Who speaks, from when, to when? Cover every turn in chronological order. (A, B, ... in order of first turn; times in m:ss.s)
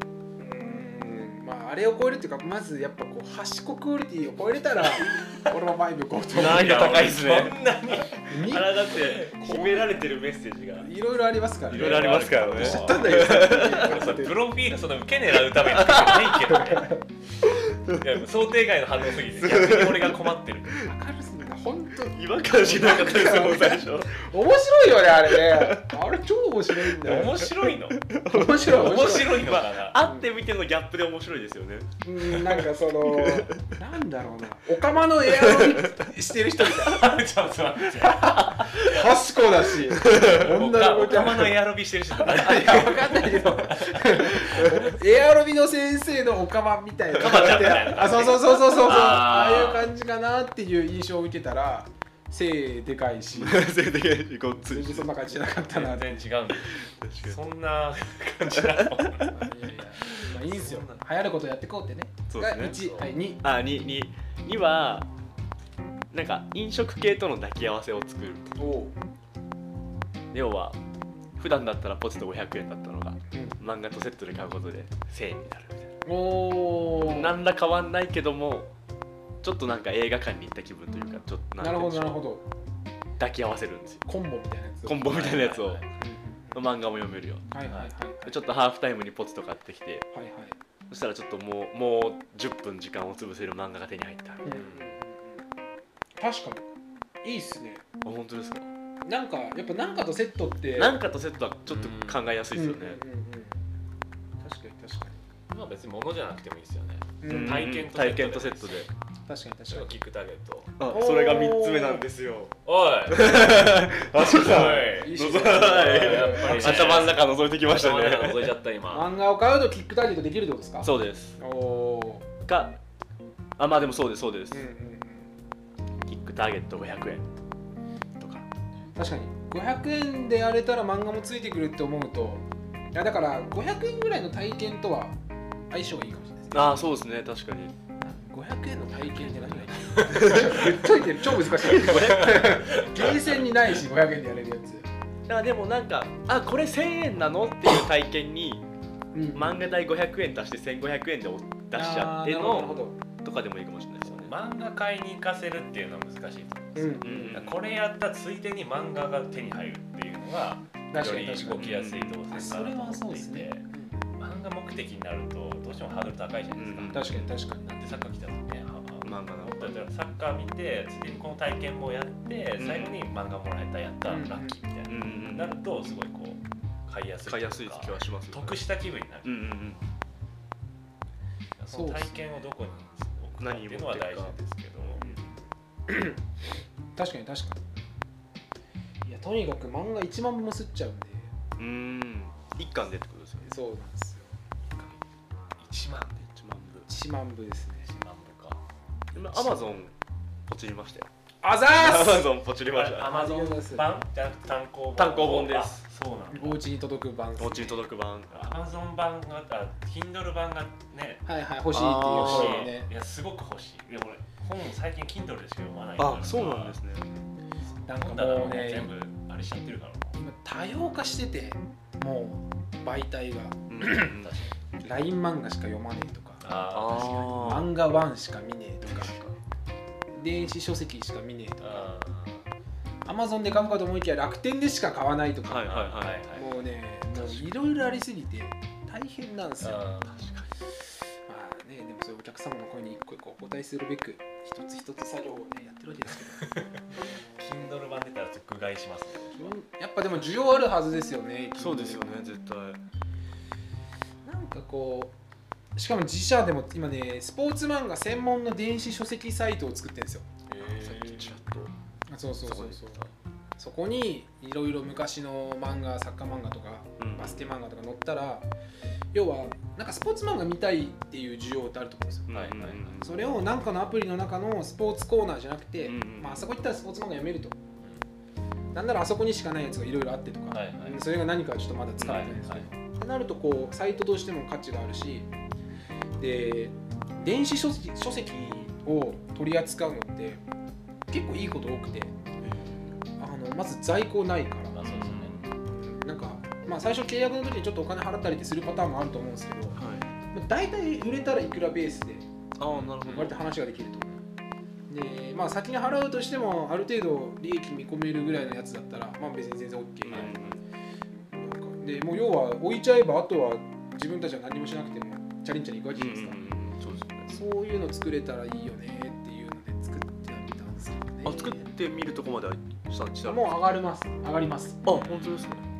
0:00.4-0:07.0 A
0:06.3-0:07.6 B
0:06.4-0:09.6 C
0:08.2-0:10.0 A
0:08.3-0:10.9 B
0:10.8-0:14.4 A
0:11.7-0:17.0 C
0:11.7-0:14.1 B
0:15.6-0:16.7 B
0:17.5-0:18.0 B
0:17.9-0:20.8 C
0:19.0-0:20.9 B
0:20.8-0:27.4 A
0:22.0-0:24.3 B
0:25.2-0:26.0 B
0:26.7-0:33.6 B
0:27.0-0:28.0 C
0:28.2-0:29.4 A
0:28.6-0:30.0 C
0:30.0-0:30.3 A
0:32.0-0:37.2 A
0:35.2-0:36.1 B
0:36.7-0:39.1 C
0:37.9-0:41.6 A
0:40.0-0:45.0 C
0:40.0-0:40.4 B
0:42.2-0:53.7 A
0:44.4-0:44.7 B
0:47.1-0:49.9 C
0:53.3-0:55.1 B
0:54.7-0:56.3 A
0:55.6-1:01.0 C
0:56.6-0:57.4 B
0:58.5-0:59.3 B
0:59.3-1:03.4 A
1:02.3-1:02.8 B
1:02.7-1:03.1 C
1:03.4-1:05.1 B
1:06.1-1:08.5 B
1:08.6-1:08.9 A
1:10.3-1:10.8 B
1:11.4-1:15.9 B
1:16.0-1:17.4 A
1:16.9-1:18.7 B
1:19.4-1:22.2 B
1:21.6-1:22.4 A
1:23.2-1:24.0 B
1:24.1-1:25.1 A
1:24.8-1:25.8 B
1:25.0-1:25.8 C
1:26.0-1:26.6 A
1:26.5-1:27.5 B
1:27.5-1:28.4 A
1:28.2-1:30.1 B
1:30.1-1:30.6 A
1:30.9-1:34.5 B
1:34.4-1:35.4 A
1:34.4-1:34.9 C
1:36.2-1:36.7 A
1:37.2-1:37.8 A
1:38.0-1:38.7 B
1:39.0-1:41.0 A
1:40.8-1:43.0 B
1:41.7-1:42.3 C
1:42.5-1:43.6 A
1:44.4-1:45.2 A
1:45.5-1:48.8 C
1:47.2-1:47.7 A
1:47.2-1:48.9 B
1:49.3-1:49.9 A
1:49.7-1:50.8 C
1:50.8-1:52.6 B
1:50.9-1:52.0 A
1:52.6-1:59.1 C
1:53.1-1:58.6 B
1:54.2-1:57.1 A
1:58.9-2:02.3 A
2:00.8-2:01.4 B
2:02.5-2:02.8 B
2:03.6-2:04.6 B
2:04.5-2:05.3 A
2:06.1-2:07.3 B
2:08.2-2:08.4 B
2:08.9-2:15.2 A
2:15.7-2:16.8 A
2:16.5-2:17.7 B
2:18.0-2:24.9 A
2:19.7-2:20.7 C
2:20.1-2:20.7 B
2:21.5-2:22.5 B
2:21.7-2:23.6 C
2:25.3-2:28.6 B
2:29.1-2:29.6 A
2:29.3-2:34.4 B
2:31.7-2:33.0 A
2:32.4-2:32.8 C
2:34.0-2:43.6 C
2:36.7-2:37.5 A
2:37.0-2:37.6 B
2:40.9-2:41.8 A
2:41.6-2:42.2 B
2:42.3-2:44.0 A
2:44.2-2:59.6 C
2:46.5-2:47.1 B
2:46.9-2:47.6 A
2:49.0-2:49.8 B
2:52.6-2:53.0 B
2:54.1-2:54.6 A
2:54.9-2:55.6 B
2:57.2-2:58.6 B
2:59.2-2:59.8 B
3:01.6-3:05.1 C
3:01.7-3:02.2 A
3:03.4-3:05.3 B
3:05.9-3:06.2 A
3:07.0-3:07.7 A
3:09.0-3:11.3 A
3:11.6-3:13.5 B
3:13.5-3:14.3 A
3:14.7-3:15.0 C
3:15.6-3:16.2 C
3:16.2-3:16.9 B
3:16.9-3:17.9 A
3:17.8-3:18.6 C
3:19.1-3:19.9 B
3:20.5-3:21.1 B
3:21.4-3:22.3 A
3:21.7-3:23.2 B
3:22.7-3:26.6 C
3:23.0-3:24.0 A
3:25.0-3:25.8 B
3:26.3-3:27.8 A
3:27.4-3:28.5 B
3:28.3-3:31.2 C
3:31.2-3:32.9 A
3:31.7-3:32.7 B
3:32.1-3:36.8 C
3:36.0-3:37.1 B
3:37.8-3:40.2 C
3:37.8-3:38.9 A
3:40.1-3:44.2 A
3:43.7-3:44.3 B
3:44.0-3:44.5 C
3:44.8-3:46.4 A
3:46.4-3:47.5 C
3:46.7-3:47.8 B
3:47.3-3:49.1 A
3:48.8-3:49.3 B
3:50.1-3:51.9 A
3:51.6-3:52.4 C
3:53.0-3:55.8 A
3:55.4-3:56.2 B
3:55.6-3:56.5 C
3:56.3-4:00.0 A
3:57.1-3:57.4 B
3:59.6-4:00.2 C
4:00.1-4:00.5 B
4:01.3-4:07.7 A
4:07.4-4:09.5 C
4:09.4-4:12.3 A
4:11.6-4:12.8 B
4:14.2-4:15.1 A
4:15.8-4:20.3 A
4:20.5-4:21.3 C
4:20.6-4:21.7 B
4:22.1-4:23.0 A
4:22.4-4:23.1 B
4:23.6-4:28.4 A
4:27.0-4:27.5 B
4:29.1-4:32.3 A
4:32.3-4:33.2 B
4:32.3-4:33.0 C
4:33.0-4:37.6 A
4:35.8-4:36.5 B
4:38.7-4:45.3 A
4:40.5-4:41.0 C
4:42.0-4:42.6 C
4:42.0-4:42.3 B
4:46.2-4:50.4 A
4:51.1-4:52.1 A
4:52.4-4:53.0 B
4:53.2-4:54.8 A
4:54.7-4:55.4 C
4:54.8-4:55.5 B
4:55.8-4:59.8 A
4:59.8-5:00.1 B
5:00.3-5:02.3 A
5:02.6-5:03.4 B
5:02.7-5:03.3 C
5:03.0-5:04.2 A
5:04.9-5:10.6 A
5:10.0-5:10.6 B
5:11.3-5:16.4 A
5:16.0-5:17.3 B
5:17.3-5:21.7 A
5:21.2-5:23.5 B
5:23.2-5:25.1 A
5:24.8-5:25.7 B
5:24.9-5:25.5 C